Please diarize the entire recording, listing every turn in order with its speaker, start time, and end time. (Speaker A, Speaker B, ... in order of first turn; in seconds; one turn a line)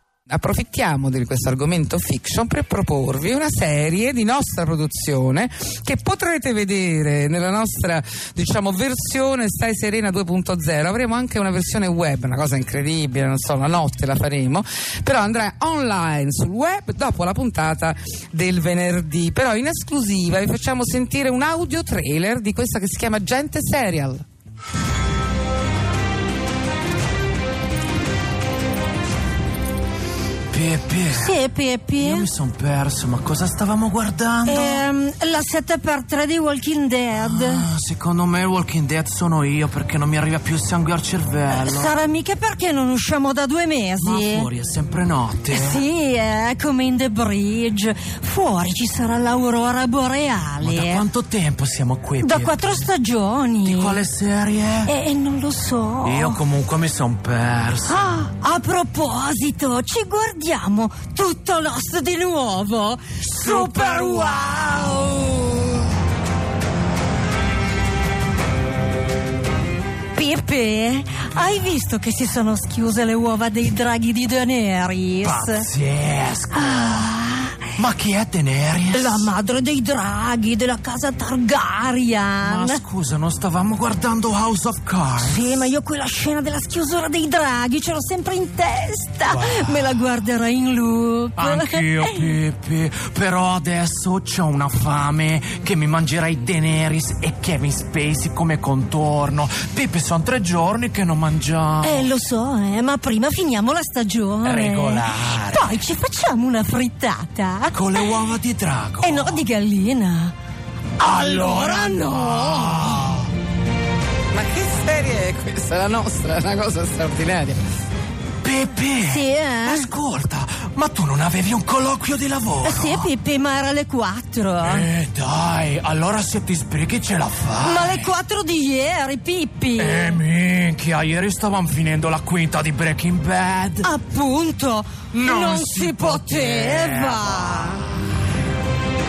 Speaker A: 0.3-24.2
Speaker B: 30.5-31.4
Speaker C: 31.1-32.3
Speaker B: 32.0-34.9
Speaker C: 34.5-37.7
Speaker B: 37.1-41.9
Speaker C: 41.5-44.5
Speaker B: 44.0-45.9
Speaker C: 45.5-51.1
Speaker B: 50.6-52.9
Speaker C: 52.2-54.0
Speaker B: 53.6-54.9
Speaker C: 54.8-56.4
Speaker B: 56.0-58.1
Speaker C: 57.9-65.8
Speaker B: 63.2-65.2
Speaker C: 70.1-75.7
Speaker B: 75.2-77.1
Speaker C: 76.5-77.7
Speaker B: 77.7-79.3
Speaker C: 78.9-82.8
Speaker B: 82.4-85.7
Speaker C: 85.2-92.3
Speaker B: 89.3-90.0
Speaker B: 91.3-102.1
Speaker C: 101.8-108.2
Speaker B: 104.4-105.8
Speaker B: 107.7-109.4
Speaker C: 109.0-110.3
Speaker C: 111.0-113.1
Speaker B: 111.0-113.3
Speaker A: 114.3-117.6
Speaker B: 118.4-123.1
Speaker C: 119.0-119.9
Speaker C: 122.6-124.9
Speaker B: 124.6-128.1
Speaker C: 127.6-130.2
Speaker B: 129.8-133.9
Speaker C: 133.8-137.8
Speaker B: 135.1-137.9